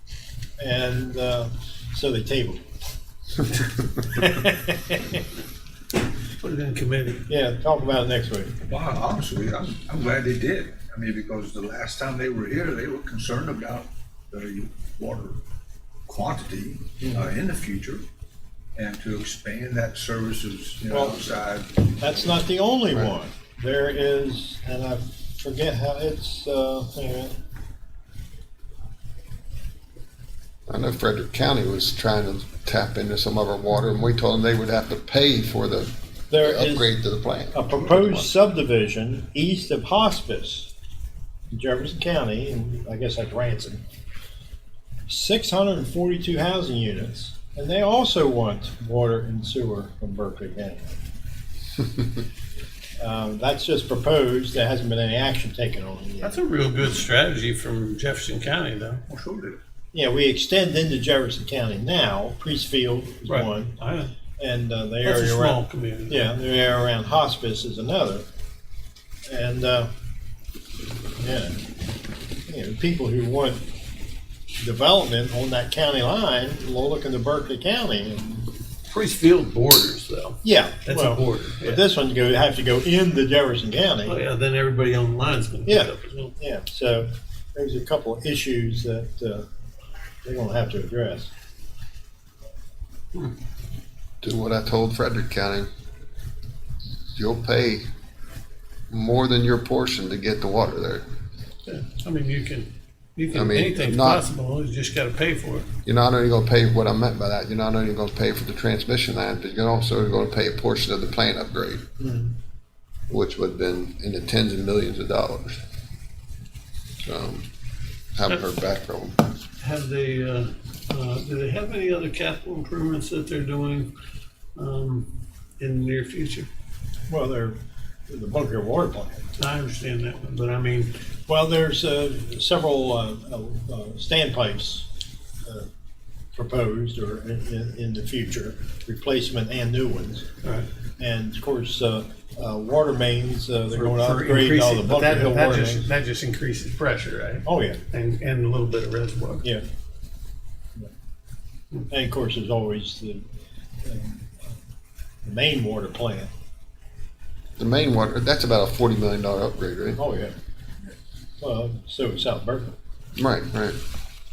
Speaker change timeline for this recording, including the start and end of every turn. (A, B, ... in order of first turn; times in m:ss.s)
0:00.6-0:02.6 A
0:03.5-0:05.2 A
0:06.4-0:07.2 B
0:07.3-0:08.5 A
0:08.7-0:15.4 C
0:16.1-0:18.0 C
0:17.0-0:17.3 A
0:18.8-0:21.8 C
0:20.9-0:21.2 A
0:22.0-0:27.3 A
0:30.7-0:38.3 D
0:36.3-0:36.9 A
0:37.5-0:40.7 A
0:41.5-0:43.8 A
0:45.1-0:51.0 A
0:53.0-0:56.4 A
0:56.2-0:59.0 B
0:59.1-0:59.6 C
0:59.9-1:03.8 A
1:03.3-1:04.1 B
1:04.4-1:08.2 A
1:05.0-1:06.2 B
1:09.3-1:09.9 A
1:11.2-1:11.6 A
1:12.5-1:13.6 A
1:14.6-1:18.5 A
1:18.9-1:21.8 B
1:20.4-1:24.2 A
1:24.0-1:26.3 B
1:25.6-1:29.4 A
1:30.2-1:31.3 A
1:34.2-1:35.7 D
1:37.2-1:37.8 D
1:38.9-1:41.0 D
1:41.6-1:45.7 B
1:43.3-1:44.2 D
1:45.8-1:51.8 D
1:52.0-1:52.3 A
1:53.1-1:55.6 D
1:57.0-1:57.4 D
1:58.1-1:59.2 D
1:59.6-2:03.9 B
2:04.6-2:06.5 B
2:07.1-2:07.6 A
2:08.1-2:09.3 A
2:09.4-2:11.0 B
2:11.3-2:14.9 A
2:15.4-2:15.7 A
2:16.3-2:20.3 A
2:20.4-2:20.7 B
2:21.0-2:25.8 A
2:23.7-2:29.4 B
2:27.4-2:27.8 A
2:31.9-2:33.2 A
2:33.8-2:34.5 A
2:35.2-2:36.3 A
2:37.6-2:40.0 D
2:40.0-2:40.3 A
2:41.4-2:42.7 A
2:43.2-2:43.8 D